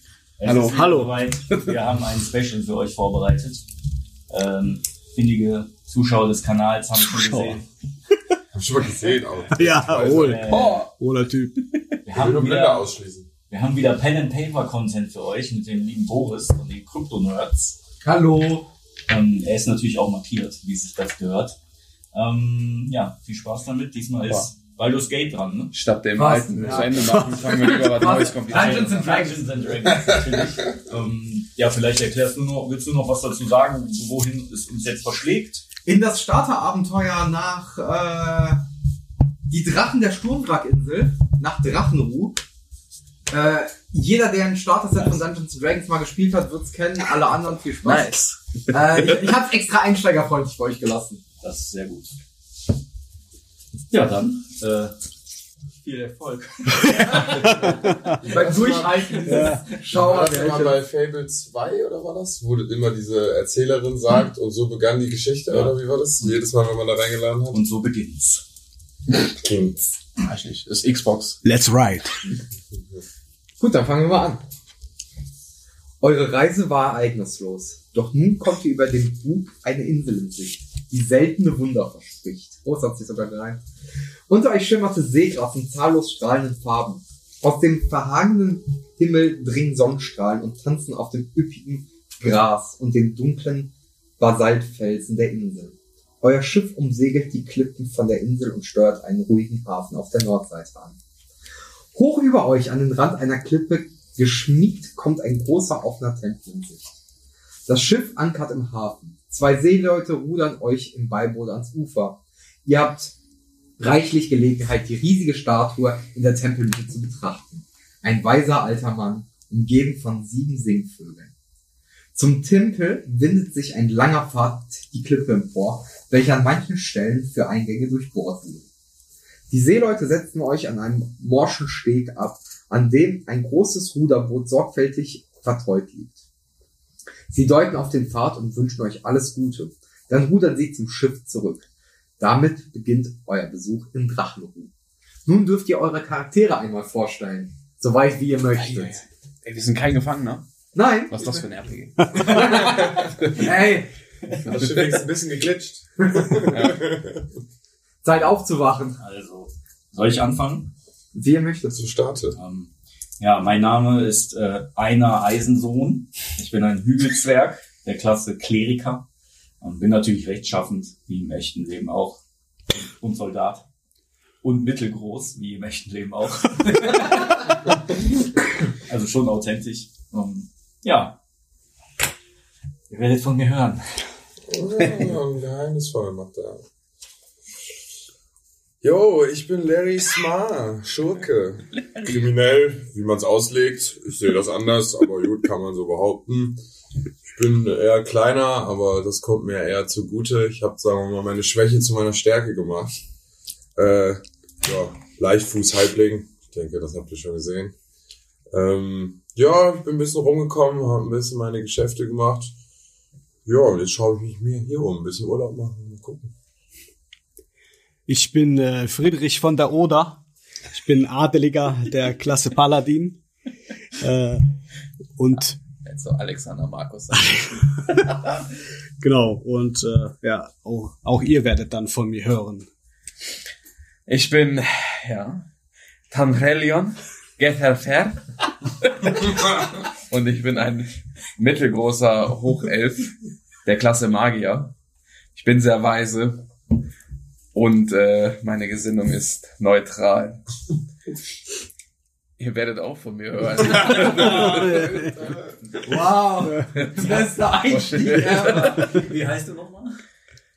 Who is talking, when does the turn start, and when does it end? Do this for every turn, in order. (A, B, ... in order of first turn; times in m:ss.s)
0:00.4-0:03.6 A
0:00.4-0:00.9 B
0:00.5-0:01.7 C
0:04.3-0:07.6 A
0:07.0-0:07.6 C
0:08.5-0:10.8 D
0:09.5-0:11.9 C
0:10.1-0:10.8 A
0:10.5-0:10.9 B
0:12.0-0:12.9 A
0:12.1-0:13.3 D
0:13.5-0:17.8 A
0:18.0-0:18.7 E
0:19.1-0:21.6 A
0:22.1-0:25.7 A
0:25.7-0:29.0 B
0:26.2-0:29.7 E
0:28.5-0:35.6 A
0:29.8-0:30.4 D
0:35.8-0:38.6 E
0:39.5-0:42.4 E
0:43.3-0:48.1 E
0:47.8-0:48.4 B
0:48.7-0:51.2 E
0:51.4-0:52.1 A
0:53.9-0:54.9 A
0:55.8-0:59.7 A
0:58.2-0:59.1 D
0:58.2-1:00.8 E
0:59.2-0:59.6 C
0:59.9-1:07.6 D
1:05.5-1:05.7 A
1:07.5-1:08.4 A
1:09.1-1:10.0 D
1:10.2-1:11.4 B
1:11.4-1:12.1 C
1:13.6-1:14.4 E
1:16.0-1:23.6 E
1:24.3-1:41.0 E
1:41.9-1:46.9 E
1:47.7-1:53.1 E
1:53.8-2:01.3 E
2:02.1-2:08.6 E
2:09.5-2:16.2 E
2:17.3-2:21.6 E
2:22.2-2:24.7 E
2:25.2-2:29.0 E
2:28.6-2:30.4 B
2:30.7-2:31.4 E
2:31.1-2:32.5 B
2:32.1-2:33.9 E
2:32.7-2:33.1 D
2:33.2-2:33.5 B
2:34.4-2:37.3 D
2:36.1-2:36.5 E
2:36.5-2:36.8 B
2:38.0-2:39.0 E
2:39.0-2:40.7 A
2:41.1-2:41.8 E
2:41.7-2:42.4 D
2:42.3-2:49.0 A
2:49.6-2:52.2 A
2:52.7-2:53.6 A
2:54.4-2:57.5 A
2:58.8-3:01.2 A
3:02.9-3:04.0 A
3:04.5-3:06.6 D
3:08.8-3:16.6 D
3:17.2-3:23.0 D
3:23.8-3:27.7 D
3:28.5-3:32.5 D
3:33.4-3:36.3 D
3:38.1-3:43.2 C
3:44.0-3:44.5 C
3:45.2-3:45.6 C
3:45.8-3:48.2 B
3:47.1-3:47.4 C
3:49.0-3:52.7 C
3:54.1-3:55.5 B
3:56.1-3:58.2 B
3:58.8-3:59.3 B
4:00.0-4:03.1 B
4:03.6-4:04.7 B
4:05.3-4:06.5 B
4:07.5-4:10.4 B
4:12.4-4:14.8 B
4:13.8-4:15.5 D
4:14.4-4:15.1 C
4:15.8-4:18.9 E
4:16.7-4:18.8 B
4:18.2-4:20.0 A